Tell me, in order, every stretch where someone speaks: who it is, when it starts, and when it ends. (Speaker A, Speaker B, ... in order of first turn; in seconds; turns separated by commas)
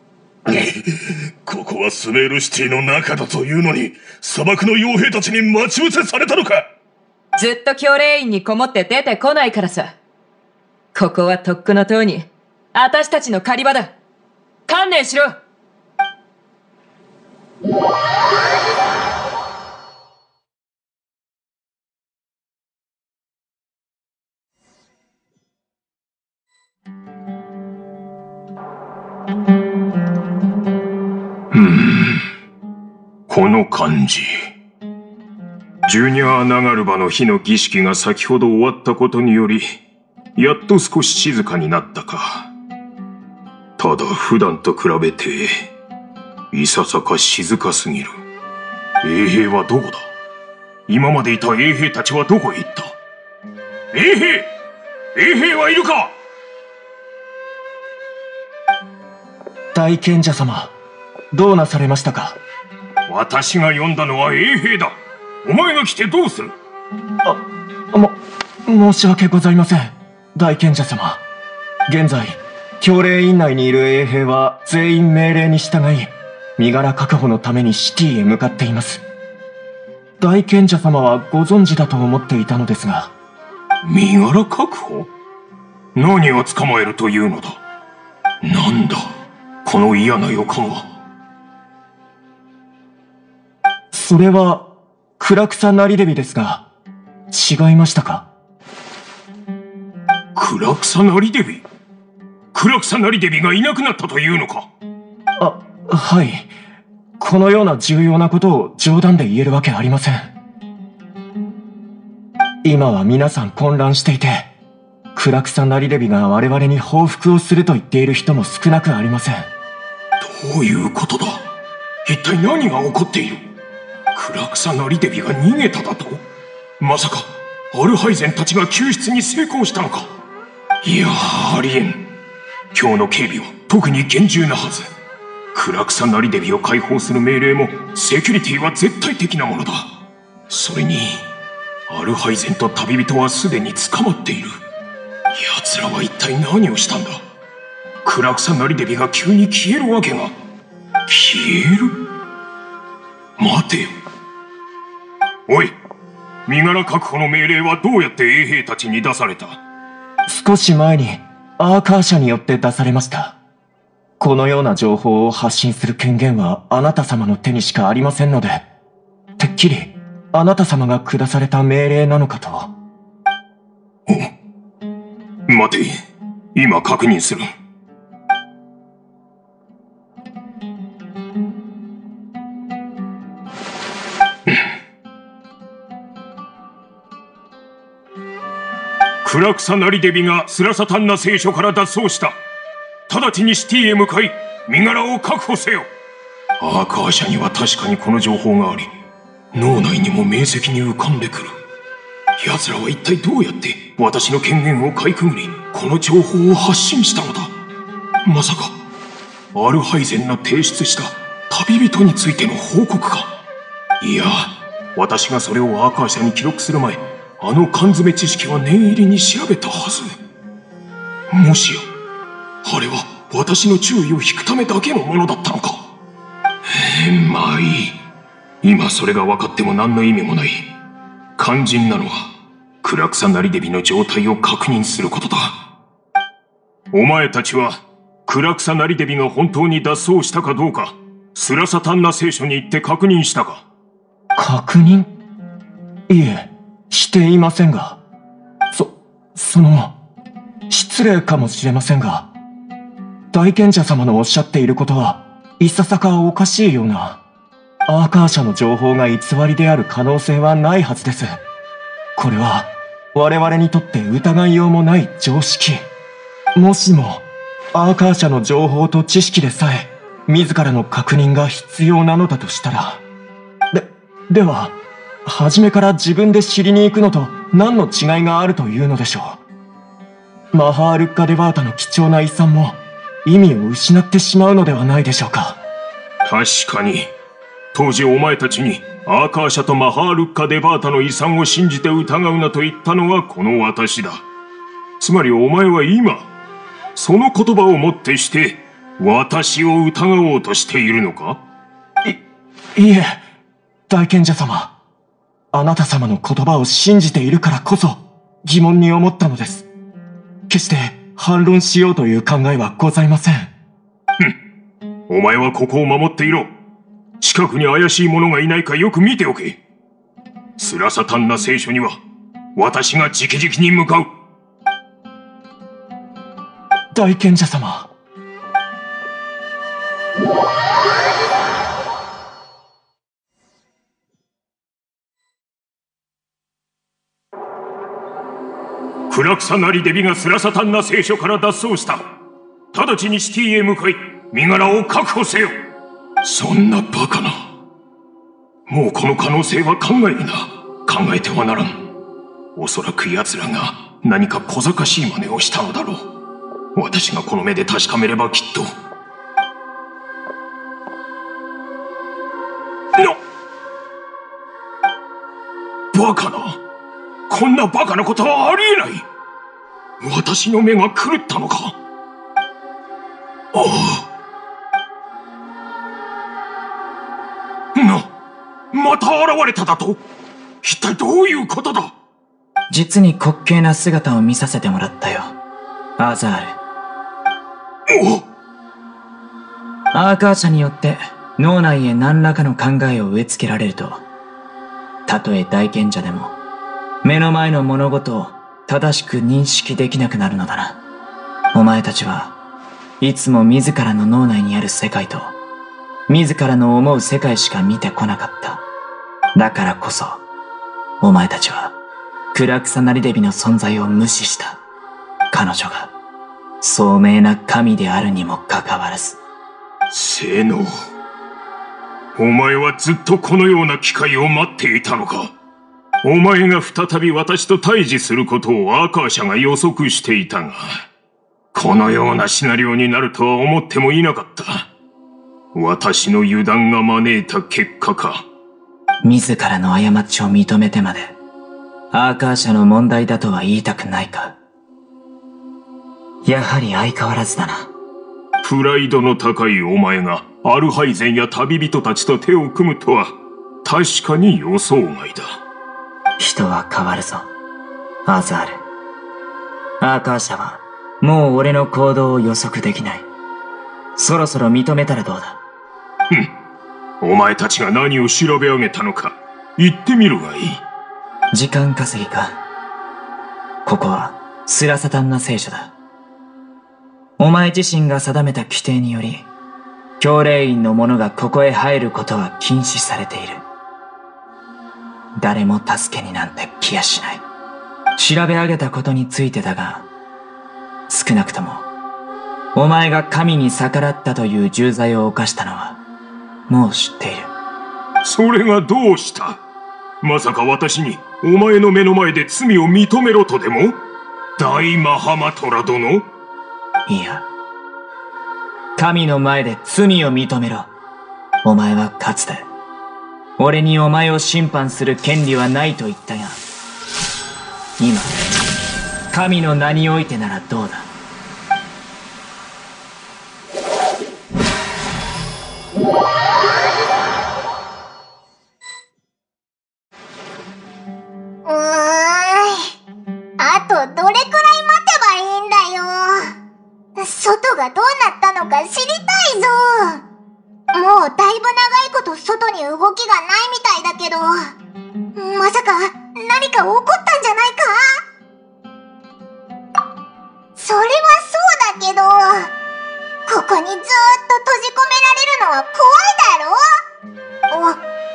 Speaker A: 0.5-6.7, Speaker B: 7.4-9.9, Speaker B: 10.9-13.9, Speaker B: 14.7-15.4, Speaker C: 31.5-32.2, Speaker C: 33.3-34.5, Speaker C: 35.9-39.7, Speaker C: 40.4-42.5, Speaker C: 43.8-45.7, Speaker C: 46.5-48.2, Speaker C: 49.0-50.1, Speaker C: 50.9-52.9, Speaker C: 53.9-54.5, Speaker C: 55.2-56.1, Speaker D: 59.7-60.7, Speaker D: 61.3-62.4, Speaker C: 63.1-66.5, Speaker D: 68.7-71.2, Speaker D: 71.9-79.0, Speaker D: 80.2-83.1, Speaker C: 83.8-85.1, Speaker C: 86.0-87.6, Speaker C: 88.4-89.1, Speaker C: 89.7-90.9, Speaker D: 93.9-94.7, Speaker D: 95.2-96.6, Speaker D: 97.3-98.2, Speaker C: 100.3-101.6, Speaker C: 102.5-104.7, Speaker D: 105.4-106.5, Speaker D: 107.2-110.3, Speaker D: 112.6-114.5, Speaker D: 115.2-119.5, Speaker C: 120.2-121.4, Speaker C: 122.0-123.5, Speaker C: 124.2-126.2, Speaker C: 126.8-130.1, Speaker C: 130.8-132.1, Speaker C: 132.7-134.9, Speaker C: 135.5-139.9, Speaker C: 140.5-141.2, Speaker C: 141.9-144.5, Speaker C: 145.3-147.2, Speaker C: 148.1-150.3, Speaker C: 151.1-151.9, Speaker C: 153.4-153.9, Speaker C: 155.5-155.7, Speaker C: 156.5-159.6, Speaker D: 160.3-163.3, Speaker D: 164.2-168.6, Speaker D: 169.4-172.7, Speaker C: 175.5-176.0, Speaker C: 176.6-177.4, Speaker C: 189.2-192.4, Speaker C: 193.1-195.9, Speaker C: 196.6-198.9, Speaker C: 199.5-201.5, Speaker C: 202.4-207.5, Speaker C: 208.3-208.7, Speaker C: 209.5-213.4, Speaker C: 214.0-220.1, Speaker C: 221.3-221.9, Speaker C: 222.6-225.9, Speaker C: 226.7-228.0, Speaker C: 228.6-230.7, Speaker C: 231.4-232.3, Speaker C: 232.8-235.6, Speaker C: 236.9-243.7, Speaker D: 244.4-245.1, Speaker D: 246.1-248.0, Speaker D: 248.7-249.9, Speaker D: 250.7-252.3, Speaker D: 253.3-257.2, Speaker D: 257.9-261.4, Speaker D: 262.2-265.9, Speaker D: 266.6-267.2, Speaker D: 267.7-273.0, Speaker D: 273.7-274.7, Speaker D: 275.3-279.4, Speaker D: 280.5-285.6, Speaker C: 286.2-287.1, Speaker C: 287.7-294.2, Speaker C: 295.0-296.3, Speaker C: 297.0-301.4, Speaker D: 302.8-303.2, Speaker D: 303.9-304.7, Speaker D: 305.5-309.7, Speaker D: 310.5-313.5, Speaker C: 315.1-316.5, Speaker C: 317.2-319.6, Speaker C: 320.6-322.0, Speaker C: 322.6-324.1, Speaker D: 326.9-327.9, Speaker C: 339.1-342.0, Speaker C: 342.7-345.5, Speaker C: 346.2-347.5, Speaker C: 348.7-351.8, Speaker C: 352.6-356.0, Speaker C: 356.8-358.7, Speaker C: 365.9-366.6, Speaker C: 367.3-369.0, Speaker C: 370.0-371.7, Speaker C: 373.5-374.1, Speaker C: 377.8-378.1, Speaker C: 378.7-380.0, Speaker C: 380.6-381.9, Speaker E: 382.7-385.4, Speaker E: 386.0-386.6, Speaker C: 387.9-388.2, Speaker E: 389.9-394.0, Speaker E: 395.1-396.3, Speaker E: 397.0-400.8, Speaker E: 401.5-402.3, Speaker E: 403.0-405.3, Speaker E: 406.1-408.6, Speaker E: 409.4-410.2, Speaker E: 411.0-411.7, Speaker E: 412.3-414.6, Speaker E: 415.3-415.9, Speaker E: 416.6-419.2, Speaker C: 419.9-420.7, Speaker C: 422.2-425.3, Speaker C: 426.0-430.7, Speaker C: 431.5-434.7, Speaker C: 435.5-438.2, Speaker E: 439.0-441.2, Speaker E: 441.9-444.4, Speaker E: 446.2-447.7, Speaker C: 448.4-453.1, Speaker C: 453.6-455.4, Speaker E: 456.2-457.3, Speaker E: 458.1-458.6, Speaker E: 459.8-463.1, Speaker E: 464.0-465.4, Speaker C: 467.0-470.6, Speaker E: 471.3-472.4, Speaker E: 473.6-475.7, Speaker E: 477.2-479.3, Speaker E: 480.0-483.4, Speaker E: 485.2-487.2, Speaker E: 488.0-489.9, Speaker E: 490.9-491.6, Speaker E: 492.6-495.8, Speaker E: 496.5-497.3, Speaker C: 498.0-499.4, Speaker C: 500.0-503.8, Speaker C: 504.4-506.0, Speaker E: 506.9-507.2, Speaker E: 508.8-510.7, Speaker E: 511.4-512.5, Speaker E: 513.4-516.4, Speaker E: 517.8-518.1, Speaker E: 519.1-520.9, Speaker F: 531.5-532.7, Speaker F: 533.4-536.3, Speaker F: 537.0-540.0, Speaker F: 540.7-544.4, Speaker F: 545.2-547.8, Speaker F: 550.6-552.5, Speaker F: 553.3-556.6, Speaker F: 557.5-557.8